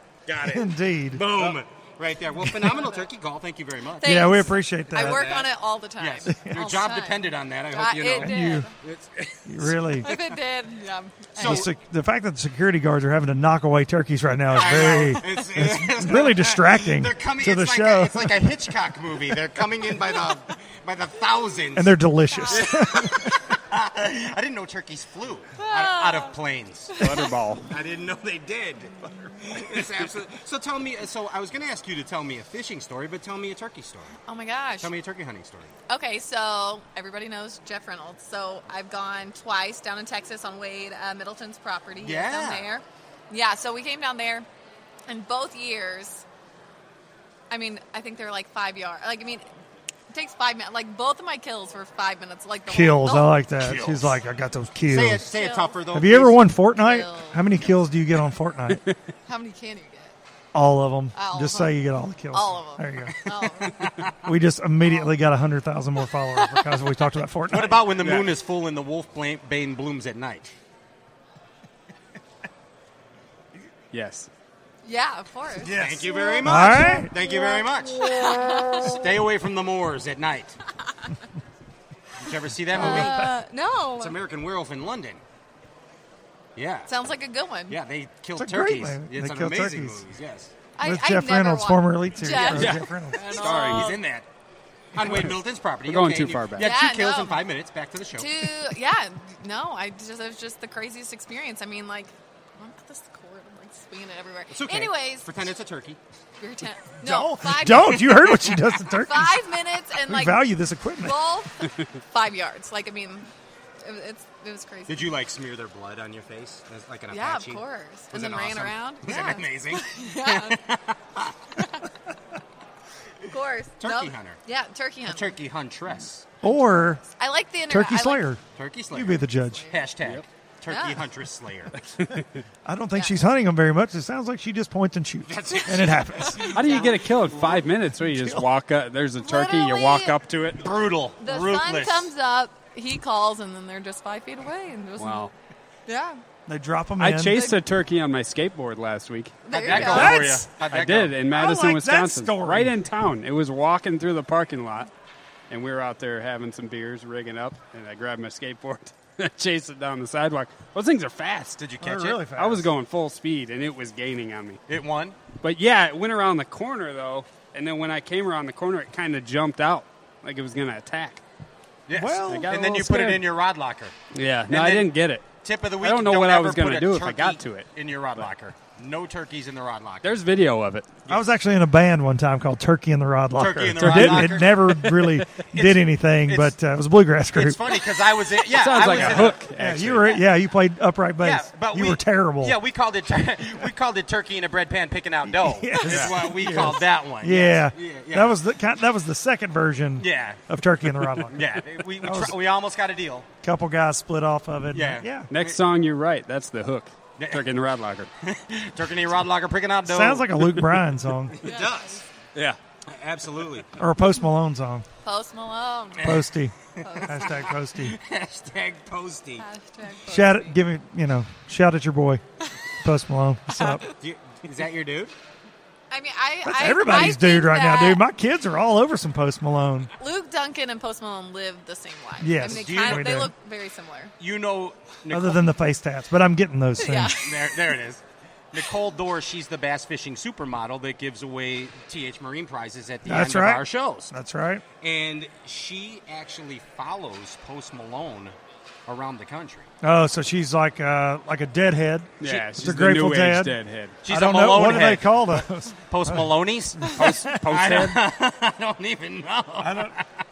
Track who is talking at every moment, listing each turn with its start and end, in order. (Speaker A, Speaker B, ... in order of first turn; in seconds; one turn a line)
Speaker A: 0.2-10.3
Speaker B: 0.4-1.6
Speaker B: 2.4-2.8
Speaker C: 4.0-8.7
Speaker B: 4.0-5.2
Speaker B: 6.3-6.6
Speaker B: 8.2-8.7
Speaker B: 9.4-10.1
Speaker C: 10.0-11.7
Speaker A: 11.3-11.7
Speaker B: 11.3-18.6
Speaker A: 14.5-21.9
Speaker C: 14.6-15.3
Speaker B: 21.7-23.5
Speaker C: 22.3-22.8
Speaker A: 22.5-27.1
Speaker C: 25.6-26.4
Speaker C: 26.9-27.3
Speaker D: 27.0-27.7
Speaker A: 27.7-34.2
Speaker C: 34.2-34.9
Speaker A: 34.8-35.7
Speaker C: 35.9-44.5
Speaker A: 42.0-42.7
Speaker C: 45.1-46.2
Speaker C: 47.5-49.4
Speaker C: 50.1-53.4
Speaker B: 52.7-55.3
Speaker A: 53.6-54.2
Speaker A: 54.9-56.4
Speaker C: 55.3-55.8
Speaker B: 55.9-58.8
Speaker C: 56.8-57.4
Speaker C: 59.2-60.1
Speaker B: 60.5-63.3
Speaker C: 61.1-61.8
Speaker C: 62.3-63.9
Speaker A: 63.7-64.2
Speaker B: 64.2-68.0
Speaker A: 67.5-70.5
Speaker D: 68.0-68.3
Speaker D: 73.9-74.3
Speaker C: 74.8-76.7
Speaker A: 75.6-80.6
Speaker B: 76.4-77.1
Speaker C: 78.0-79.0
Speaker C: 80.9-81.2
Speaker A: 82.2-83.3
Speaker C: 82.7-84.2
Speaker B: 82.7-83.3
Speaker A: 84.0-85.2
Speaker A: 86.5-86.9
Speaker C: 86.9-87.8
Speaker A: 87.7-90.5
Speaker B: 88.4-90.0
Speaker C: 90.8-94.0
Speaker B: 90.8-93.2
Speaker D: 92.4-94.0
Speaker A: 93.3-94.3
Speaker A: 94.9-98.5
Speaker D: 95.0-96.7
Speaker C: 96.6-97.4
Speaker C: 98.2-105.3
Speaker A: 104.5-106.0
Speaker C: 106.4-115.1
Speaker B: 107.0-109.4
Speaker B: 110.0-111.2
Speaker A: 114.9-121.6
Speaker C: 117.1-120.6
Speaker C: 121.5-121.9
Speaker C: 123.2-125.3
Speaker A: 123.8-124.4
Speaker A: 125.1-126.3
Speaker B: 126.4-127.0
Speaker C: 127.0-128.2
Speaker B: 127.7-128.4
Speaker A: 128.5-131.8
Speaker B: 128.9-129.7
Speaker C: 130.7-131.0
Speaker D: 131.8-132.4
Speaker B: 132.7-136.5
Speaker C: 132.9-133.2
Speaker A: 135.2-137.6
Speaker C: 136.3-136.9
Speaker D: 136.5-140.7
Speaker B: 138.1-138.5
Speaker C: 139.2-140.2
Speaker A: 140.6-142.1
Speaker C: 141.2-145.3
Speaker D: 145.0-145.3
Speaker C: 145.9-146.2
Speaker B: 146.5-147.4
Speaker D: 147.0-154.9
Speaker C: 147.3-147.6
Speaker C: 149.4-150.2
Speaker A: 149.5-151.2
Speaker B: 149.8-150.5
Speaker B: 151.3-152.8
Speaker D: 155.5-161.6
Speaker A: 161.6-162.2
Speaker B: 161.8-162.7
Speaker D: 162.2-164.6
Speaker A: 164.7-165.2
Speaker D: 165.4-171.2
Speaker A: 171.9-173.9
Speaker B: 171.9-172.5
Speaker D: 172.2-173.2
Speaker D: 174.1-175.3
Speaker A: 174.5-174.9
Speaker A: 175.4-180.2
Speaker D: 175.8-178.3
Speaker D: 180.0-180.9
Speaker A: 181.1-181.3
Speaker B: 181.1-187.6
Speaker A: 183.3-184.9
Speaker D: 183.8-185.2
Speaker A: 185.5-186.5
Speaker A: 187.3-189.4
Speaker D: 188.3-190.2
Speaker B: 188.8-192.6
Speaker A: 191.2-198.4
Speaker B: 195.2-202.3
Speaker D: 195.8-196.2
Speaker A: 200.0-200.4
Speaker A: 201.3-203.3
Speaker B: 203.4-205.3
Speaker A: 204.7-205.6
Speaker D: 205.3-208.1
Speaker A: 207.2-207.4
Speaker A: 208.2-210.3
Speaker B: 209.8-211.4
Speaker D: 210.4-210.8
Speaker A: 211.3-212.0
Speaker C: 211.4-212.0
Speaker A: 212.8-213.7
Speaker B: 213.8-214.8
Speaker C: 215.0-216.2
Speaker A: 215.9-216.2
Speaker B: 216.0-218.0
Speaker A: 216.7-219.4
Speaker C: 216.8-217.3
Speaker C: 219.4-220.5
Speaker B: 220.1-222.2
Speaker B: 222.8-223.8
Speaker C: 223.5-223.9
Speaker A: 224.0-225.1
Speaker C: 225.9-228.0
Speaker B: 226.4-229.9
Speaker C: 230.0-234.1
Speaker B: 232.2-233.3
Speaker A: 232.4-233.3
Speaker A: 234.2-235.4
Speaker B: 235.1-237.2
Speaker C: 236.8-237.7
Speaker A: 237.2-244.1
Speaker B: 243.0-244.6
Speaker A: 244.8-249.7
Speaker B: 249.8-257.6
Speaker D: 252.2-254.0
Speaker A: 254.0-260.1
Speaker D: 256.9-258.0
Speaker B: 259.6-259.9